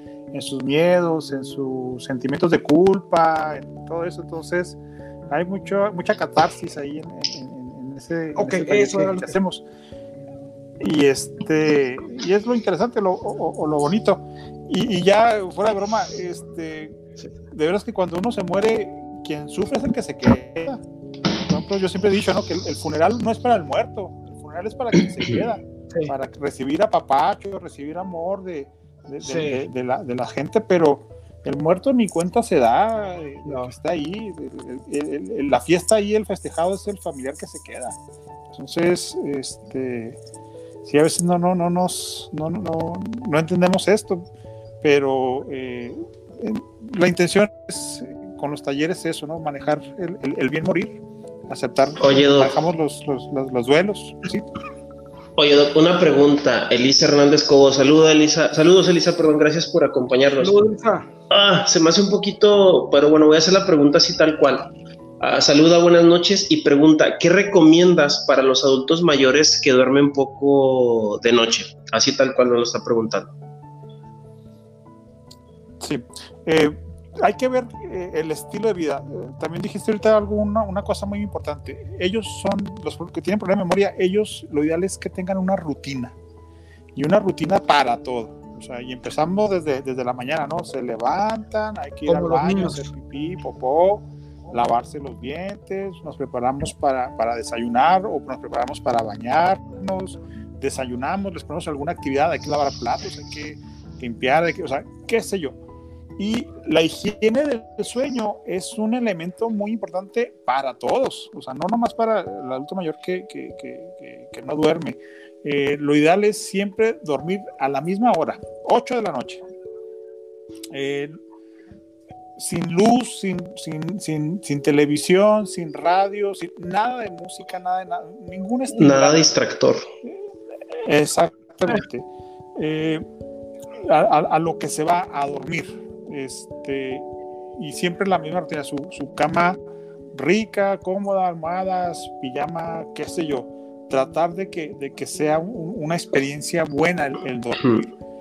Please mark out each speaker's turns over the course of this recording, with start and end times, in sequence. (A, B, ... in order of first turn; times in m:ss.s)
0:00.3-0:04.8 A
0:05.3-0:09.6 A
0:08.3-0:09.4 B
0:10.8-0:17.0 A
0:17.5-0:20.8 A
0:21.5-0:37.9 A
0:29.2-0:29.6 B
0:33.4-0:33.7 B
0:38.5-0:40.2 A
0:40.8-0:44.2 A
0:44.8-0:54.5 A
0:52.0-0:52.5 C
0:55.4-1:00.6 C
1:00.4-1:01.1 B
1:01.3-1:13.3 C
1:15.8-1:26.1 A
1:26.9-1:45.6 A
1:32.0-1:32.8 B
1:46.2-1:59.4 A
2:00.7-2:01.2 A
2:02.4-2:09.3 A
2:08.8-2:09.9 C
2:10.7-2:13.0 A
2:13.8-2:19.6 A
2:20.1-2:27.8 A
2:27.6-2:27.9 C